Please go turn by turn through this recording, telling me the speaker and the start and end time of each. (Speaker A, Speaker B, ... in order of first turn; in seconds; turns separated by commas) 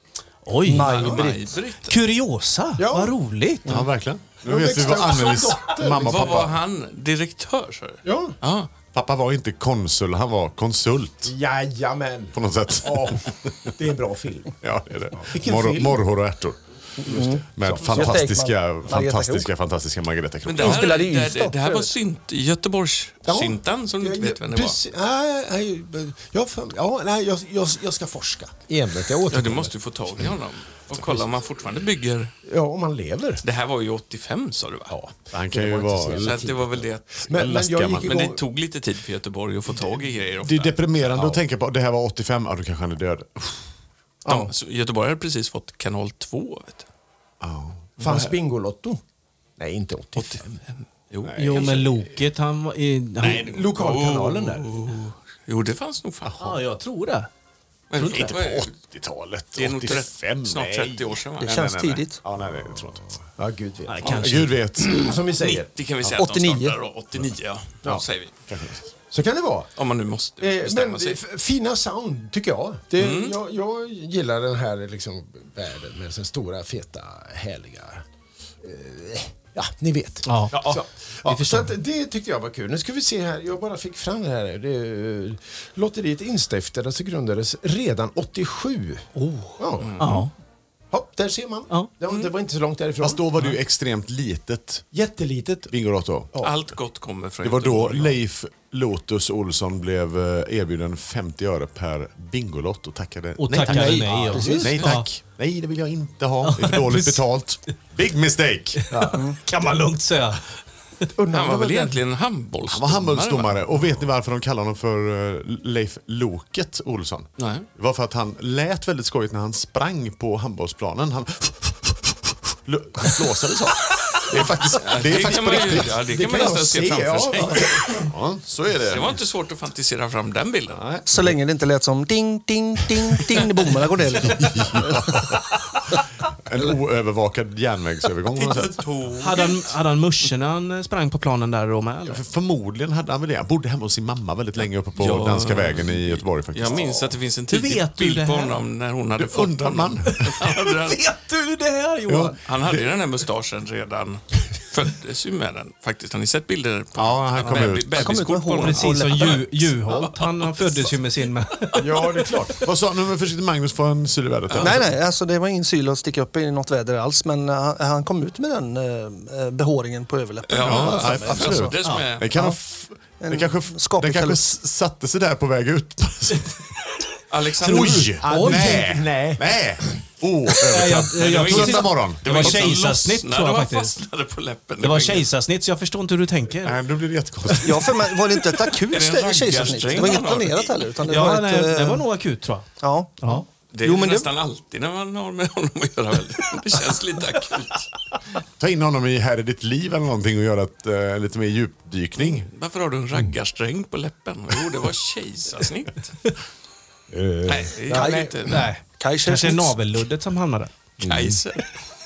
Speaker A: 0.4-1.0, Speaker B: 0.6-1.6, Speaker C: 0.7-2.0, Speaker A: 1.9-3.8, Speaker D: 2.8-3.1, Speaker E: 3.6-6.6, Speaker D: 4.4-6.5, Speaker C: 6.0-8.7, Speaker D: 8.0-8.3, Speaker E: 8.9-11.3, Speaker D: 11.2-14.6, Speaker E: 12.3-13.7, Speaker E: 14.6-16.6, Speaker D: 15.1-16.0, Speaker B: 17.0-19.5, Speaker D: 17.1-18.2, Speaker E: 17.1-20.9, Speaker C: 20.4-24.8, Speaker B: 20.6-21.9, Speaker D: 23.3-29.7, Speaker C: 29.3-32.3, Speaker D: 32.5-33.4, Speaker C: 33.4-34.9, Speaker D: 34.9-38.4, Speaker E: 35.3-36.4, Speaker C: 36.1-41.4, Speaker E: 37.3-38.2, Speaker E: 40.4-43.7, Speaker D: 44.2-44.5, Speaker C: 44.2-46.9, Speaker E: 47.4-47.9, Speaker C: 48.0-48.3, Speaker D: 48.0-49.0, Speaker D: 49.6-50.6, Speaker C: 50.1-51.8, Speaker E: 51.2-52.0, Speaker A: 51.3-53.5, Speaker D: 53.2-54.7, Speaker C: 53.2-56.3, Speaker E: 56.2-56.6, Speaker A: 56.4-57.3, Speaker C: 57.9-58.7, Speaker A: 58.0-58.3, Speaker E: 58.0-63.0, Speaker C: 59.5-61.6, Speaker B: 61.4-62.2, Speaker D: 63.4-65.7, Speaker A: 63.9-64.5, Speaker E: 64.0-65.2, Speaker C: 65.4-68.3, Speaker B: 66.2-66.8, Speaker E: 67.8-68.9, Speaker D: 69.1-69.7, Speaker C: 69.8-71.2, Speaker D: 70.4-78.0, Speaker C: 73.0-73.4, Speaker D: 78.6-90.2, Speaker A: 80.2-81.7, Speaker A: 89.1-90.3, Speaker C: 89.8-90.2, Speaker D: 90.9-93.2, Speaker E: 93.0-94.8, Speaker D: 94.9-95.7, Speaker E: 95.7-96.3, Speaker C: 96.4-98.2, Speaker E: 97.4-108.9, Speaker A: 103.4-105.1, Speaker D: 103.7-104.8, Speaker B: 104.3-104.7, Speaker A: 106.4-107.2, Speaker A: 108.8-110.4, Speaker D: 108.9-109.2, Speaker D: 111.1-112.0, Speaker C: 111.3-113.7, Speaker E: 112.7-126.0, Speaker C: 117.4-117.7, Speaker C: 124.8-128.0, Speaker D: 126.0-128.1, Speaker E: 128.0-129.2, Speaker C: 128.8-130.8, Speaker E: 130.7-131.3, Speaker B: 131.1-135.2, Speaker E: 134.2-138.8, Speaker C: 138.3-139.7, Speaker A: 139.2-142.2, Speaker E: 142.1-147.1, Speaker C: 145.0-151.0, Speaker A: 147.5-148.6, Speaker E: 149.2-150.4, Speaker A: 150.1-152.4, Speaker E: 152.1-152.8, Speaker C: 152.4-160.9, Speaker E: 156.9-158.2, Speaker B: 157.9-159.5, Speaker A: 158.6-162.4, Speaker D: 161.8-162.7, Speaker E: 162.6-164.9, Speaker C: 164.5-164.8, Speaker B: 164.6-171.8, Speaker C: 170.5-172.3, Speaker E: 170.6-176.7, Speaker B: 173.2-174.4, Speaker C: 177.3-178.2, Speaker E: 177.6-182.7, Speaker D: 178.0-179.6, Speaker A: 178.2-178.9, Speaker A: 180.6-184.0, Speaker C: 181.2-185.3, Speaker A: 184.8-186.8, Speaker E: 186.6-188.1, Speaker B: 187.6-192.1, Speaker C: 188.9-190.9, Speaker A: 191.1-192.7, Speaker B: 192.8-194.3, Speaker C: 193.7-197.9, Speaker E: 198.6-202.5, Speaker C: 202.2-206.2, Speaker D: 207.1-208.6, Speaker C: 207.4-208.7, Speaker B: 207.9-209.8, Speaker A: 208.5-210.7, Speaker D: 211.0-211.4, Speaker C: 211.0-211.7